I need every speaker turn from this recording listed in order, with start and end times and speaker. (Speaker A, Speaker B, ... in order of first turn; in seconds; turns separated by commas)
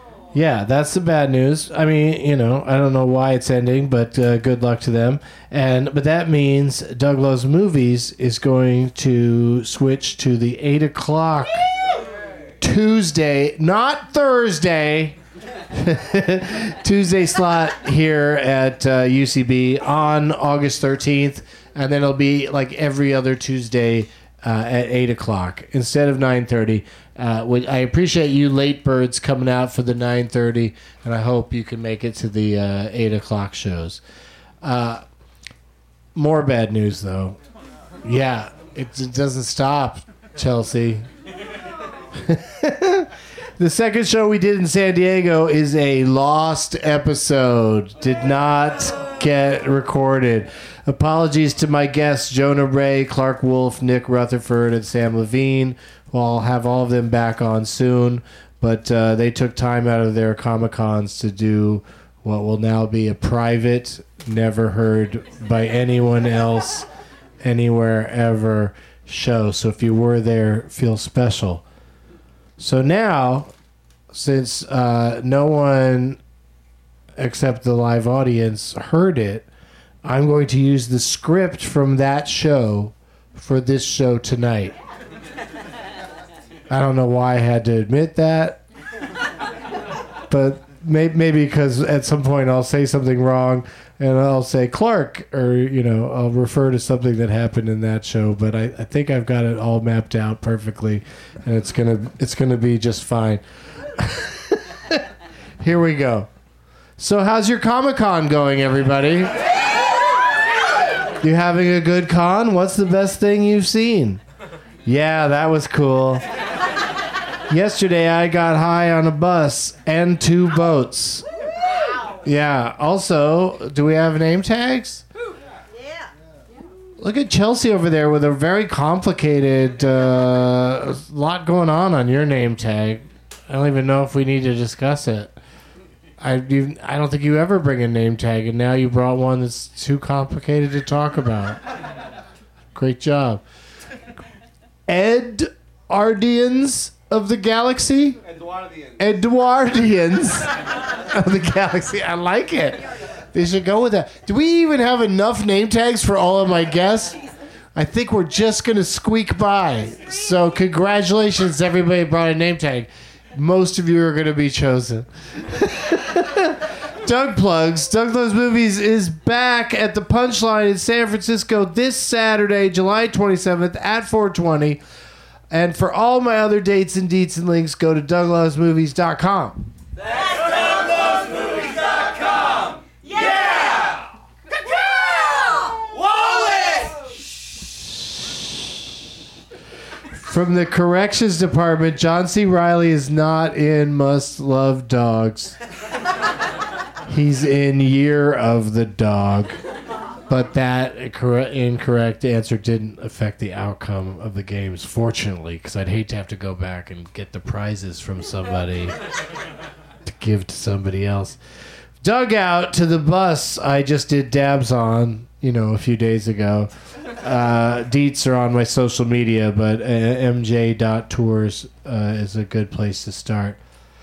Speaker A: 0.3-11.7, Speaker A: 12.6-15.2, Speaker A: 15.7-34.0, Speaker A: 34.6-35.0, Speaker A: 36.1-37.4, Speaker A: 38.0-41.0, Speaker A: 42.1-66.9, Speaker A: 67.4-71.6, Speaker A: 72.6-73.5, Speaker A: 74.1-76.2, Speaker A: 77.2-79.5, Speaker A: 80.0-84.8, Speaker A: 86.7-88.6, Speaker A: 90.3-103.4, Speaker A: 103.9-105.0, Speaker A: 105.6-106.3, Speaker A: 107.0-109.3, Speaker A: 111.2-114.2, Speaker A: 114.8-116.2, Speaker A: 117.5-121.2, Speaker A: 122.2-125.0, Speaker A: 127.0-135.3, Speaker A: 136.2-141.6, Speaker A: 142.7-143.4, Speaker A: 144.9-148.2, Speaker A: 149.0-157.2, Speaker A: 157.7-174.8, Speaker A: 175.5-179.7, Speaker A: 190.1-195.6, Speaker A: 197.1-199.6, Speaker A: 200.3-208.9, Speaker A: 210.0-211.4, Speaker A: 212.0-223.6